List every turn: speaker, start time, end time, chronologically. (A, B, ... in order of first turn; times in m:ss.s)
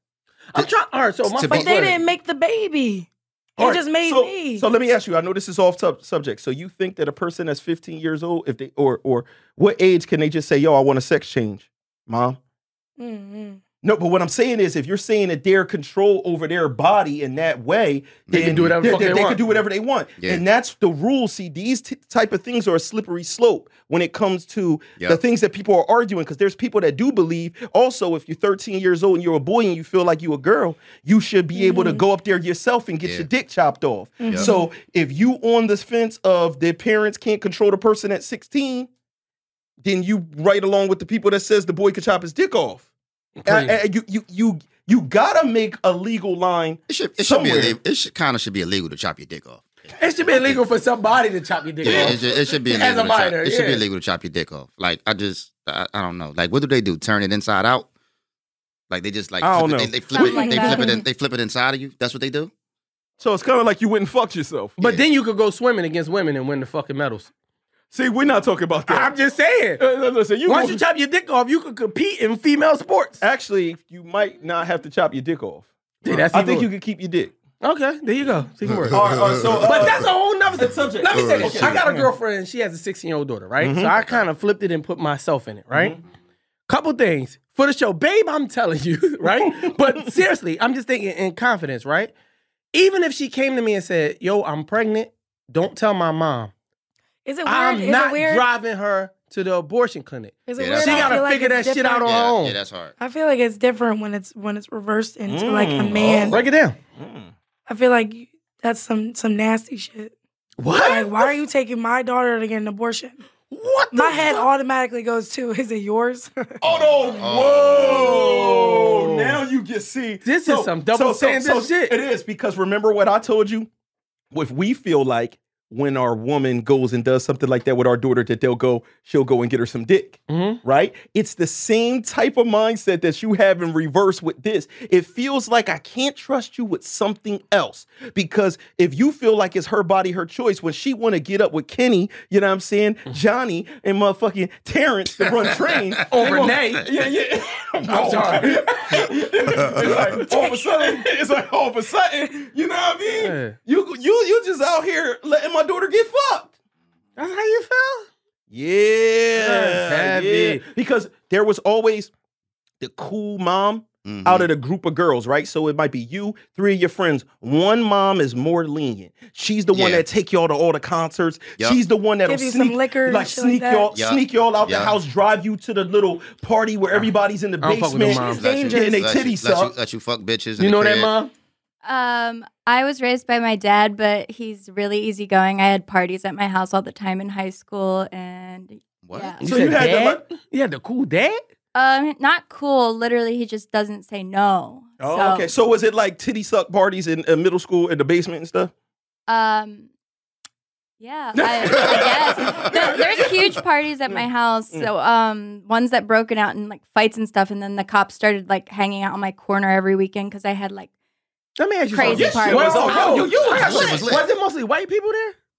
0:00.5-0:01.9 A
0:01.3-0:01.9 B
0:01.4-0:04.6 C
0:03.6-0:12.4 D
0:13.0-0:13.6 C
0:13.8-0:38.9 D
0:18.3-0:19.0 B
0:18.3-0:19.4 A
0:31.5-0:32.0 C
0:34.2-0:34.6 C
0:39.8-0:42.8 D
0:43.4-0:43.7 A
0:43.4-0:47.8 D
0:46.9-0:50.6 B
0:50.0-0:53.8 A
0:51.8-0:57.9 B
0:58.9-1:02.5 B
0:59.4-1:00.4 D
1:00.1-1:01.0 E
1:00.4-1:01.0 C
1:03.2-1:04.8 D
1:04.8-1:07.3 A
1:04.8-1:05.0 B
1:07.9-1:09.1 D
1:08.9-1:09.8 A
1:09.8-1:10.8 D
1:10.4-1:13.2 A
1:13.2-1:17.3 D
1:16.0-1:16.7 A
1:17.6-1:19.0 A
1:18.9-1:19.5 B
1:18.9-1:22.1 D
1:19.5-1:26.0 A
1:21.2-1:21.7 B
1:23.6-1:23.9 D
1:25.7-1:26.0 D
1:26.7-1:32.1 A
1:29.3-1:30.0 D
1:32.7-1:36.5 A
1:37.2-1:38.4 C
1:37.4-1:42.6 A
1:40.5-1:42.1 C
1:40.6-1:41.2 B
1:42.0-1:42.9 B
1:43.0-1:46.4 C
1:45.3-1:46.4 D
1:46.3-1:46.8 A
1:47.0-1:47.3 D
1:47.7-1:50.1 C
1:50.6-1:51.3 A
1:50.7-1:53.2 C
1:53.5-1:54.5 A
1:53.9-1:56.6 C
1:56.6-2:03.7 D
1:56.6-1:58.4 B
1:57.8-1:59.4 A
2:00.2-2:02.0 A
2:04.3-2:36.5 D
2:10.3-2:10.6 A
2:26.1-2:26.9 A
2:27.9-2:30.5 A
2:33.2-2:33.6 A
2:37.2-2:38.1 A
2:38.5-2:42.1 D
2:39.4-2:40.6 A
2:42.8-2:59.7 D
2:44.0-2:44.5 B
2:49.7-2:50.0 B
2:52.2-2:53.9 C
2:53.9-2:54.9 B
2:57.6-2:58.4 A
2:58.1-2:59.0 C
2:58.2-3:01.1 B
3:00.6-3:01.3 A
3:01.8-3:09.4 E
3:09.0-3:09.4 B
3:09.4-3:11.4 A
3:09.4-3:10.2 D
3:11.7-3:15.5 E
3:15.0-3:18.7 D
3:19.3-3:19.9 E
3:21.0-3:30.9 E
3:21.3-3:23.4 D
3:24.1-3:24.9 D
3:31.6-3:35.3 A
3:31.9-3:33.3 E
3:32.0-3:34.2 D
3:33.2-3:34.2 B